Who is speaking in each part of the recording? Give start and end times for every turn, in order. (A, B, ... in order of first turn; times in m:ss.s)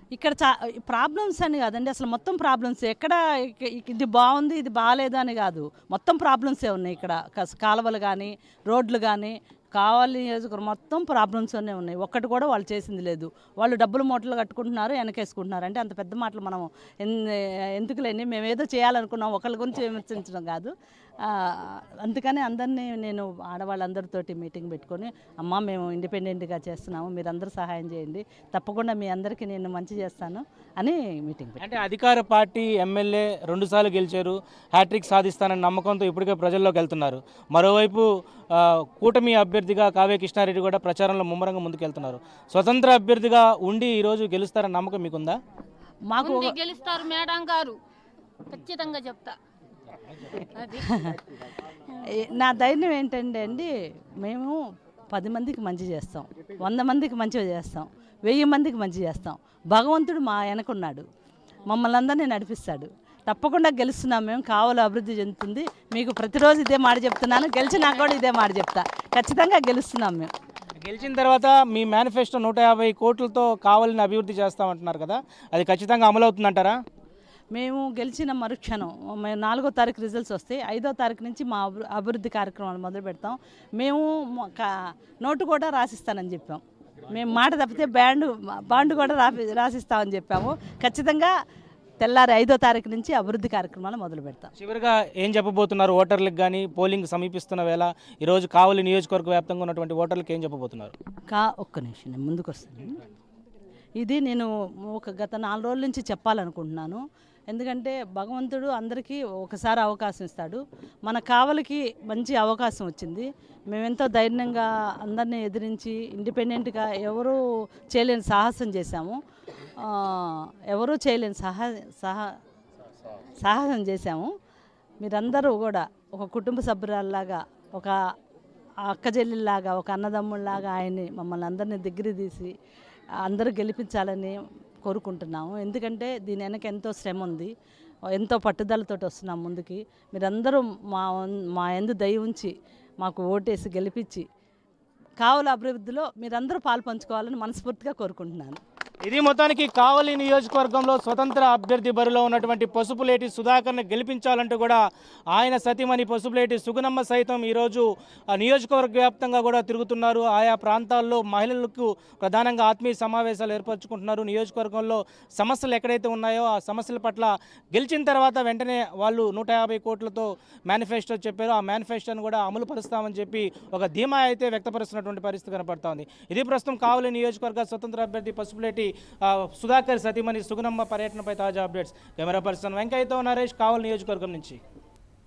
0:00.1-0:31.6 A
0:31.6-0:45.4 B
0:46.1-0:46.6 A
0:46.2-0:47.8 C
0:48.5-0:49.4 C
0:50.8-0:51.2 A
0:51.9-0:54.6 A
0:55.1-1:01.1 A
1:01.7-1:10.3 A
1:10.8-1:16.8 B
1:17.5-1:31.3 A
1:32.0-1:34.5 A
1:34.6-1:40.9 B
1:41.3-1:43.0 A
1:44.0-1:57.4 A
1:57.9-1:59.2 A
1:59.8-2:02.3 A
2:03.4-2:04.3 A
2:05.0-2:08.0 A
2:08.8-2:12.5 A
2:13.2-2:17.5 A
2:18.2-2:24.3 A
2:25.2-2:28.6 A
2:29.0-2:34.8 B
2:35.3-3:04.6 B